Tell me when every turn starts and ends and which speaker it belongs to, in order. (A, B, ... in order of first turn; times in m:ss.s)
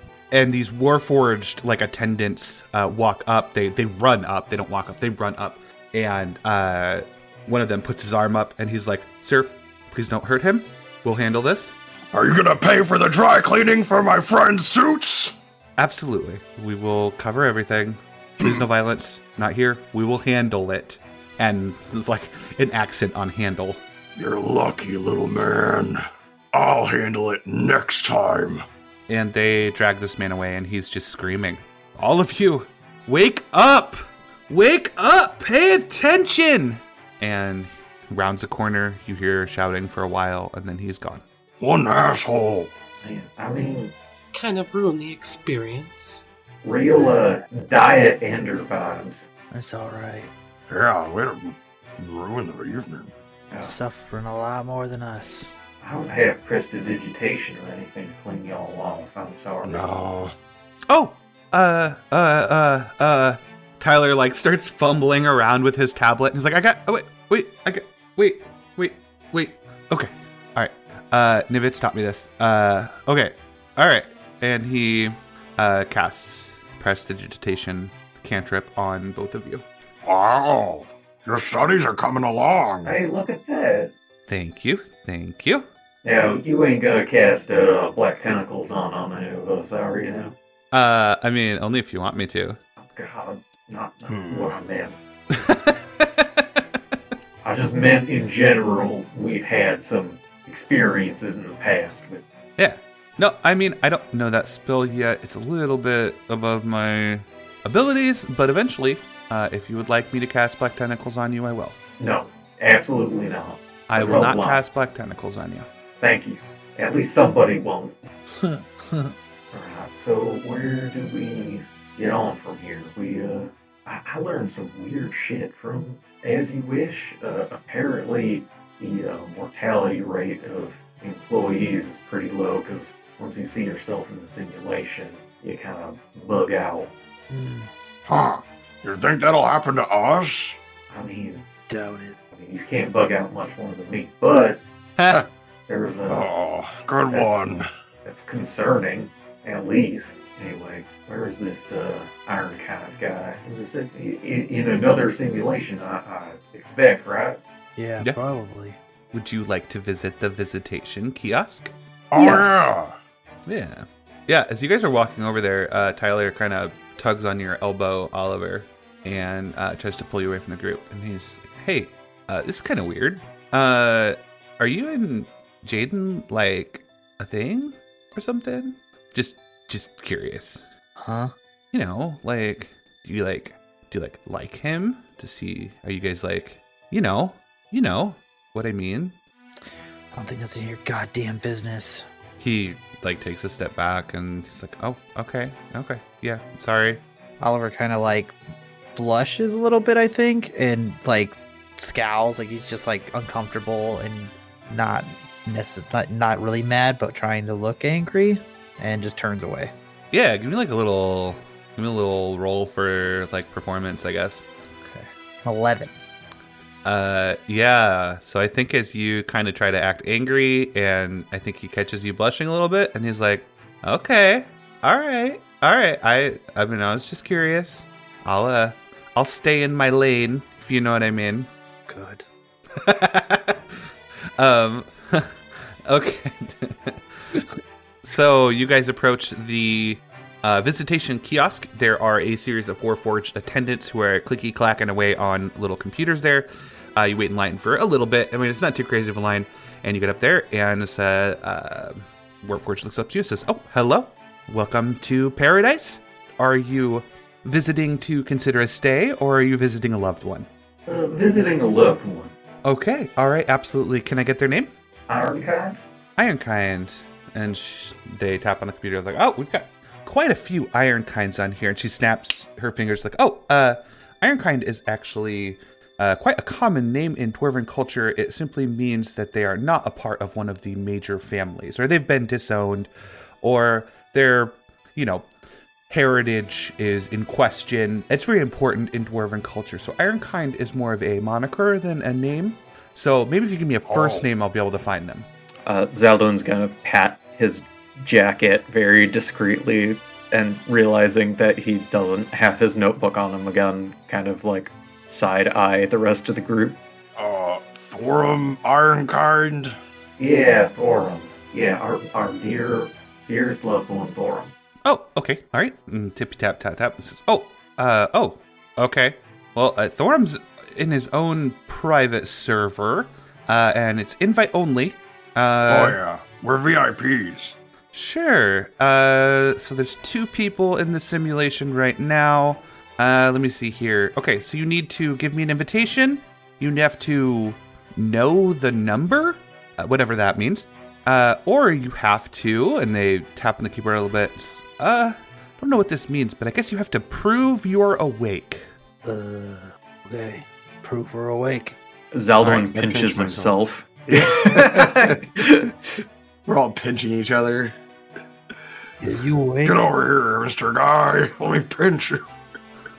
0:00.3-0:11.8 A
0:12.1-0:15.4 B
0:15.8-0:23.8 A
0:24.2-0:26.0 B
0:26.5-0:28.6 B
0:29.1-0:41.2 A
0:41.6-0:42.7 B
0:43.0-0:43.9 C
0:44.3-0:46.3 D
0:46.6-0:49.3 C
0:47.0-0:47.2 E
0:49.5-0:50.3 E
0:50.7-0:53.1 B
0:53.6-0:55.5 E
0:55.8-0:59.8 C
0:59.6-1:00.3 B
1:00.9-1:19.6 A
1:20.0-1:22.9 B
1:22.8-1:23.9 C
1:24.3-1:25.7 A
1:26.0-1:30.4 C
1:30.7-1:32.6 A
1:32.8-1:35.0 C
1:34.1-1:34.6 B
1:35.3-1:36.5 A
1:37.4-1:42.2 C
1:42.6-1:51.8 A
1:52.0-1:54.6 C
1:53.9-1:55.7 A
1:56.0-1:58.0 C
1:58.4-1:59.1 E
1:59.5-2:16.9 C
2:17.3-2:17.7 E
2:18.1-2:20.6 B
2:20.9-2:21.4 C
2:21.7-2:22.2 E
2:22.3-2:24.6 C
2:25.0-2:25.2 A
2:25.7-2:26.3 C
2:26.1-2:27.7 B
2:27.1-2:27.5 C
2:28.0-2:37.4 C
2:37.8-2:38.8 E
2:39.1-2:41.7 A
2:42.1-2:43.0 B
2:43.5-3:00.6 A
3:01.0-3:01.3 E
3:01.7-3:09.2 A
3:10.1-3:12.1 E
3:12.4-3:17.0 A
3:17.4-3:18.4 E
3:19.0-3:29.7 E
3:30.1-3:34.5 A
3:34.8-3:35.9 E
3:36.8-3:51.5 A
3:51.9-3:52.2 E
3:52.7-3:53.8 A
3:54.4-3:57.4 A
3:58.0-4:20.5 A
4:20.9-4:22.3 C
4:22.6-4:24.7 A
4:25.1-4:25.8 C
4:26.2-4:42.9 A
4:43.4-4:45.3 A
4:45.9-4:55.3 A
4:53.9-4:54.3 B
4:55.7-5:06.8 F
5:07.2-5:09.8 B
5:10.2-5:14.5 C
5:14.8-5:26.0 A
5:25.7-5:27.6 B
5:27.9-5:48.7 A
5:49.0-5:51.8 E
5:52.1-5:54.0 F
5:52.4-5:55.3 G
5:54.5-5:55.7 F
5:56.5-5:57.8 G
5:59.0-5:59.8 E
5:59.6-6:02.2 B